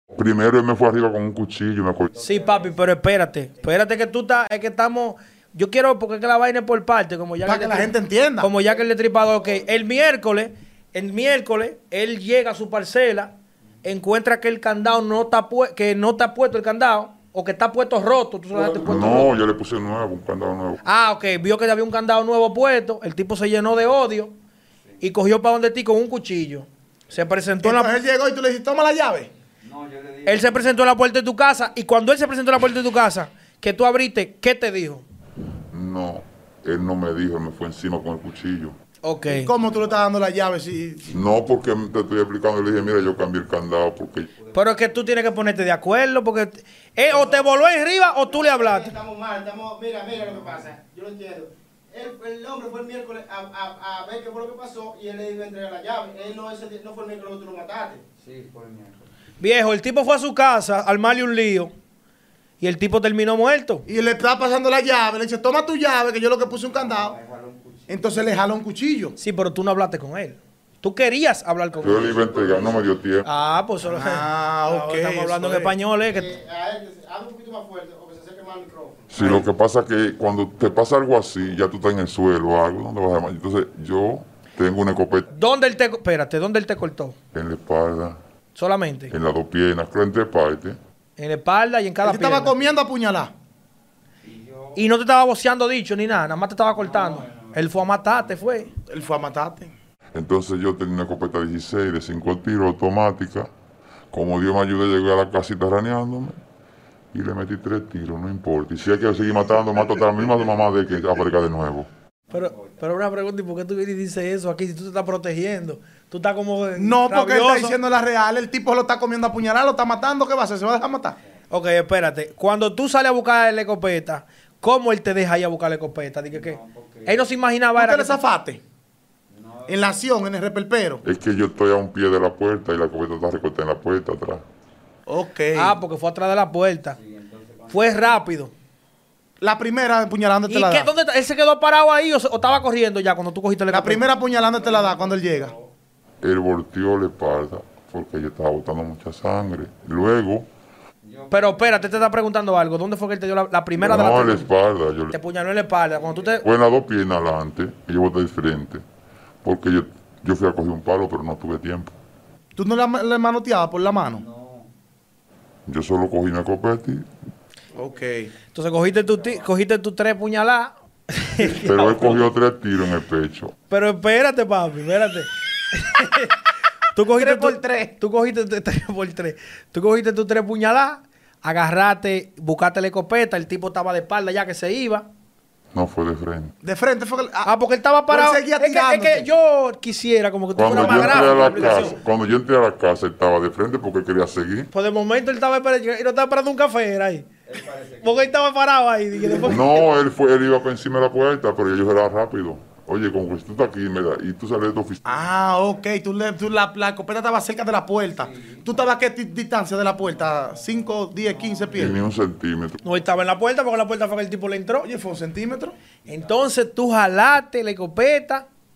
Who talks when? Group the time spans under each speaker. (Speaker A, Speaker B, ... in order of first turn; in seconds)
Speaker A: 0.1-2.1, 18.8-20.9, 35.7-38.8, 41.1-44.3, 71.8-73.3, 79.1-85.3, 87.3-88.2, 89.1-90.8, 100.1-103.5, 104.1-106.4, 107.1-111.9, 131.0-134.4, 146.2-150.5, 153.8-155.2, 156.4-158.8, 159.4-161.9, 165.7-167.1, 171.5-173.5, 185.7-186.5, 190.6-194.7, 199.4-205.2, 211.7-213.0
Speaker B: 2.2-19.3, 20.8-24.3, 25.0-28.0, 30.2-35.0, 39.0-39.5, 44.5-48.9, 59.4-61.7, 62.6-63.9, 69.2-72.2, 73.2-76.3, 85.3-87.2, 88.5-89.1, 91.2-92.7, 94.8-98.7, 112.3-117.8, 121.5-128.2, 135.5-137.0, 137.7-138.5, 140.5-144.1, 151.3-154.5, 155.1-156.5, 168.5-172.1, 173.7-176.4, 176.9-185.1, 187.4-192.0, 194.7-197.3, 198.0-199.7, 212.8-214.9, 216.1-218.5
Speaker C: 2.2-2.7, 29.6-30.5, 39.5-40.0, 44.5-45.1, 50.2-50.4, 58.2-59.1, 66.7-68.2, 94.2-94.8, 96.8-98.2, 126.3-127.2, 129.3-130.0, 136.9-138.2, 144.2-145.7, 151.0-151.9, 164.1-164.7, 197.5-198.3, 208.2-208.7, 210.3-212.0, 216.1-216.3
Speaker D: 7.5-8.5, 27.6-29.3, 39.3-41.1, 63.9-67.2, 67.9-69.2, 73.8-75.8, 79.2-79.5, 92.0-93.3, 98.9-99.7, 116.8-121.2, 127.8-128.6, 129.7-131.0, 135.1-135.8, 139.4-140.9, 143.7-145.5, 162.6-164.2, 167.8-168.3, 177.1-177.9, 186.6-187.5, 188.1-189.3, 190.7-191.9, 199.2-199.6, 205.1-212.0, 214.8-215.8
Speaker E: 47.1-47.5, 48.0-58.0, 76.1-79.2